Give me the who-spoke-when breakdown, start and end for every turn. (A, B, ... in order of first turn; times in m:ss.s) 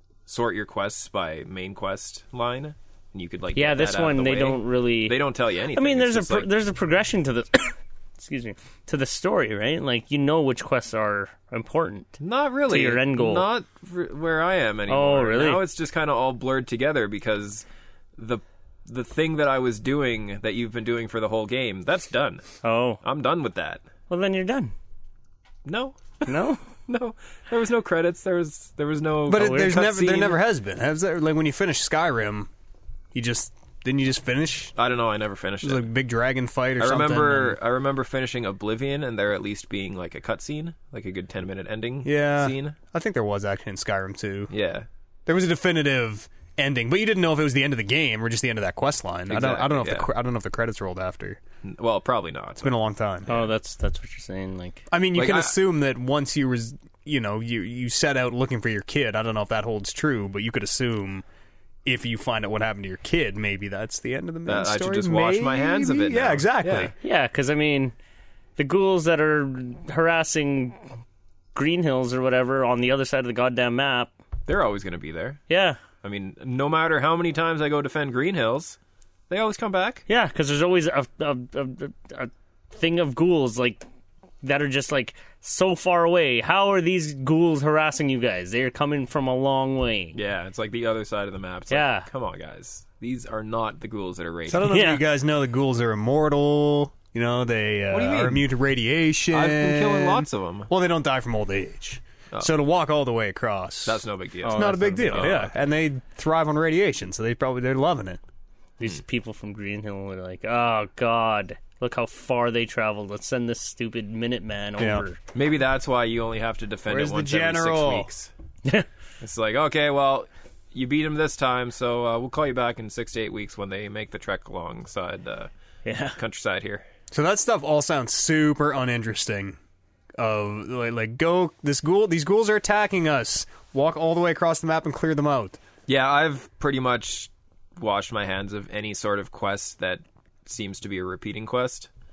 0:00.3-0:06.5 A
0:03.5-0:05.2 B
0:05.7-0:13.4 B
0:12.2-0:17.6 A
0:14.9-0:15.6 B
0:18.2-0:23.8 A
0:22.6-0:23.0 B
0:24.1-0:24.7 B
0:25.6-0:26.3 A
0:26.2-0:26.6 B
0:26.9-0:30.4 A
0:29.3-0:32.5 C
0:33.1-0:34.7 C
0:34.8-0:35.9 A
0:35.6-0:37.6 C
0:36.8-0:42.8 A
0:42.0-0:44.5 C
0:44.5-0:44.9 A
0:45.2-0:51.4 C
0:49.3-0:50.1 A
0:51.6-0:52.7 A
0:52.6-0:53.4 C
0:53.3-0:54.8 B
0:54.9-1:01.2 C
0:55.1-0:55.6 A
1:01.8-1:06.9 C
1:04.5-1:06.9 A
1:07.0-1:07.9 B
1:08.6-1:10.8 B
1:11.5-1:14.1 B
1:14.5-1:15.4 A
1:15.5-1:15.8 B
1:16.0-1:18.8 A
1:19.3-1:20.0 A
1:20.1-1:23.8 B
1:24.4-1:30.2 B
1:30.1-1:34.7 A
1:31.7-1:32.1 B
1:34.5-1:48.2 C
1:34.5-1:35.0 B
1:37.9-1:38.5 A
1:39.3-1:40.7 A
1:43.8-1:45.5 A
1:44.4-1:45.3 B
1:48.8-1:55.2 B
1:54.8-1:55.0 C
1:55.3-1:58.3 A
1:56.8-1:58.1 C
1:59.2-2:05.5 A
2:05.8-2:06.2 B
2:06.2-2:06.8 A
2:07.1-2:09.6 C
2:10.2-2:15.6 C
2:15.9-2:21.9 A